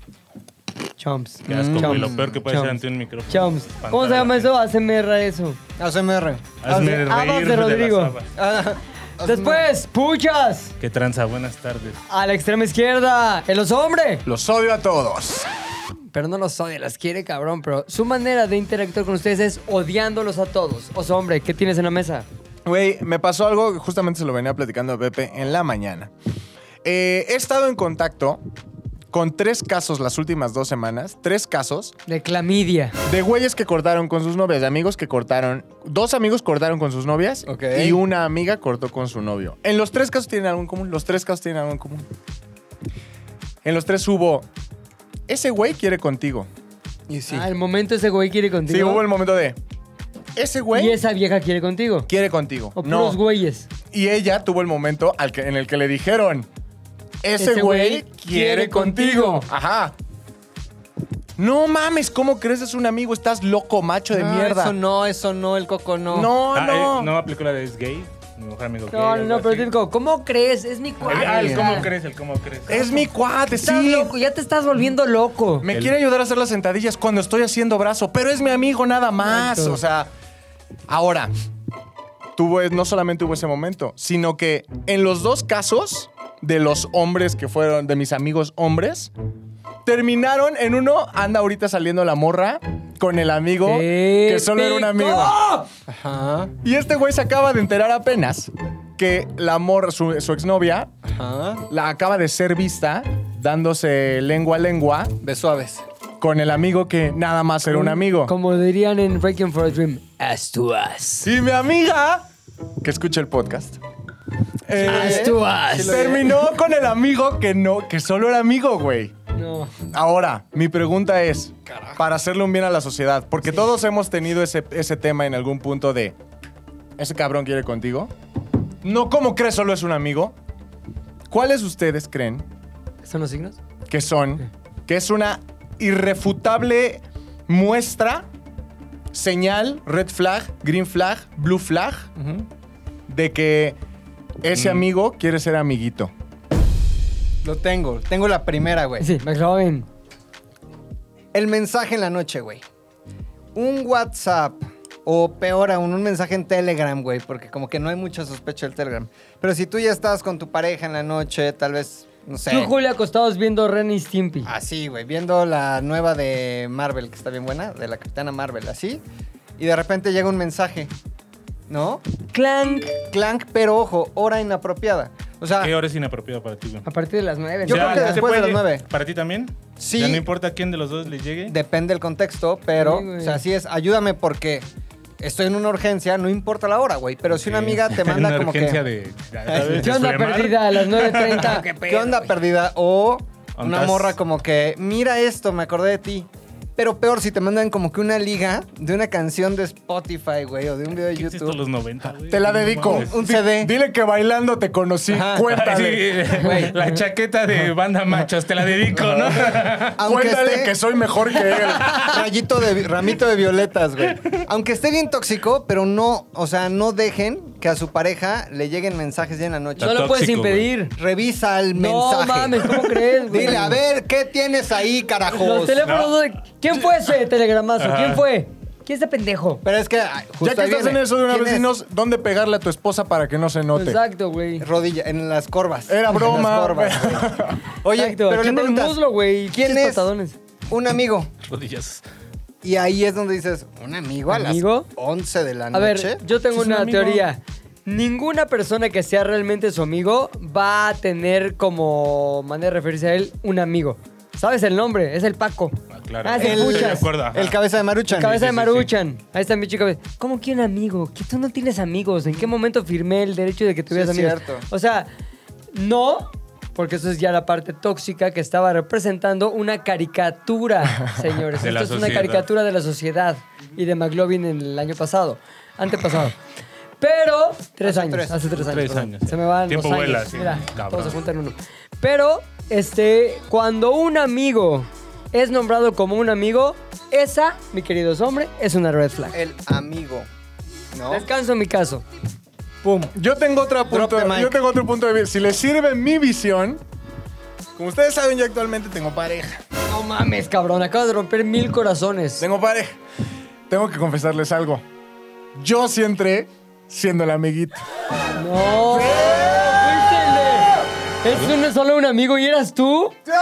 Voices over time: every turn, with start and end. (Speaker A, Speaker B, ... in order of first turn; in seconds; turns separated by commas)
Speaker A: 1.0-2.7, Speaker B: 1.5-4.5, Speaker C: 1.5-2.4, Speaker A: 3.3-5.6, Speaker C: 5.8-7.0, Speaker B: 6.6-8.3, Speaker A: 6.7-8.1, Speaker C: 8.3-9.6, Speaker A: 9.2-10.7, Speaker B: 10.8-12.0, Speaker A: 12.1-14.2, Speaker D: 14.2-15.5, Speaker A: 16.1-22.3, Speaker D: 22.6-26.1, Speaker D: 26.8-28.4, Speaker D: 29.1-31.9, Speaker A: 32.1-33.0, Speaker D: 33.0-42.1, Speaker C: 37.5-38.0, Speaker D: 43.6-44.5, Speaker D: 45.3-46.5, Speaker C: 47.1-47.5, Speaker A: 47.3-49.0, Speaker D: 48.7-49.6, Speaker D: 50.4-51.0, Speaker A: 50.7-52.1, Speaker D: 52.1-53.2, Speaker A: 52.8-53.7, Speaker D: 53.9-56.5, Speaker D: 57.2-59.9, Speaker A: 57.4-59.5, Speaker D: 61.4-64.8, Speaker C: 64.1-66.3, Speaker D: 66.1-67.1, Speaker B: 66.5-69.7, Speaker A: 68.9-71.9, Speaker C: 71.0-71.8, Speaker B: 71.1-72.8, Speaker D: 72.7-74.1, Speaker A: 73.5-75.7, Speaker D: 75.6-80.1, Speaker A: 79.3-79.8, Speaker D: 80.9-81.3, Speaker D: 82.3-89.1, Speaker D: 89.8-95.4, Speaker A: 93.6-95.7, Speaker C: 95.9-96.5, Speaker D: 96.6-100.9, Speaker C: 101.0-101.6, Speaker D: 101.7-105.1, Speaker C: 105.2-105.8, Speaker D: 106.2-108.3, Speaker A: 107.7-111.3, Speaker D: 111.2-112.3, Speaker D: 112.8-113.8, Speaker D: 114.7-119.1, Speaker A: 114.7-116.2, Speaker C: 114.8-116.3, Speaker A: 119.3-119.7, Speaker D: 119.8-126.1, Speaker C: 121.7-122.0, Speaker D: 127.0-128.1, Speaker D: 128.8-130.3, Speaker D: 131.3-132.5, Speaker A: 133.0-133.6, Speaker D: 133.9-138.3, Speaker D: 139.1-142.1, Speaker C: 142.2-142.4, Speaker D: 143.1-143.8, Speaker D: 144.4-146.1, Speaker B: 144.6-144.8, Speaker C: 147.4-149.1, Speaker A: 149.0-149.9, Speaker C: 151.3-152.6, Speaker C: 153.5-162.7, Speaker A: 162.5-164.5, Speaker C: 164.4-169.0, Speaker C: 169.6-170.9, Speaker C: 171.7-172.0, Speaker A: 172.3-172.9, Speaker C: 173.1-175.7, Speaker B: 175.6-176.8, Speaker A: 176.8-178.2, Speaker C: 177.7-178.8, Speaker B: 177.7-181.5, Speaker C: 179.8-180.2, Speaker C: 181.5-184.7, Speaker A: 182.8-183.4, Speaker C: 185.2-188.8, Speaker B: 187.3-191.5, Speaker C: 189.5-189.9, Speaker A: 189.8-192.3, Speaker C: 191.2-201.6, Speaker B: 193.6-194.1, Speaker B: 201.1-203.2, Speaker D: 202.3-206.2, Speaker C: 202.9-203.7, Speaker C: 205.1-205.4, Speaker B: 205.5-209.9, Speaker C: 206.3-206.8, Speaker C: 209.9-210.7, Speaker D: 210.0-212.0, Speaker B: 211.5-212.1, Speaker C: 211.9-220.1, Speaker B: 219.8-220.7, Speaker A: 219.8-220.9, Speaker C: 220.9-225.8, Speaker A: 221.7-223.8, Speaker A: 225.3-229.6, Speaker B: 225.8-226.1, Speaker B: 227.8-228.2, Speaker C: 229.6-231.7, Speaker D: 230.4-234.0, Speaker A: 233.7-234.7, Speaker C: 234.6-240.1, Speaker D: 235.9-237.6, Speaker A: 237.9-240.3, Speaker C: 240.7-241.3, Speaker B: 241.5-242.0, Speaker C: 242.6-246.2, Speaker A: 244.3-244.9, Speaker A: 245.7-257.1, Speaker B: 246.5-247.2, Speaker B: 255.9-257.6, Speaker C: 256.4-258.4, Speaker A: 258.1-265.1, Speaker B: 258.3-258.9, Speaker C: 263.9-264.6, Speaker A: 265.7-276.4, Speaker B: 271.6-272.4, Speaker A: 277.0-289.4, Speaker C: 277.8-278.5, Speaker B: 278.6-281.1, Speaker C: 289.3-290.3, Speaker C: 290.9-291.2, Speaker A: 291.1-292.0, Speaker C: 292.8-293.1, Speaker D: 293.1-296.8, Speaker C: 293.9-294.6, Speaker D: 297.8-299.6, Speaker A: 299.9-302.4, Speaker D: 302.4-303.0, Speaker D: 303.7-304.8, Speaker D: 305.5-307.8, Speaker A: 308.4-313.2, Speaker D: 308.9-309.9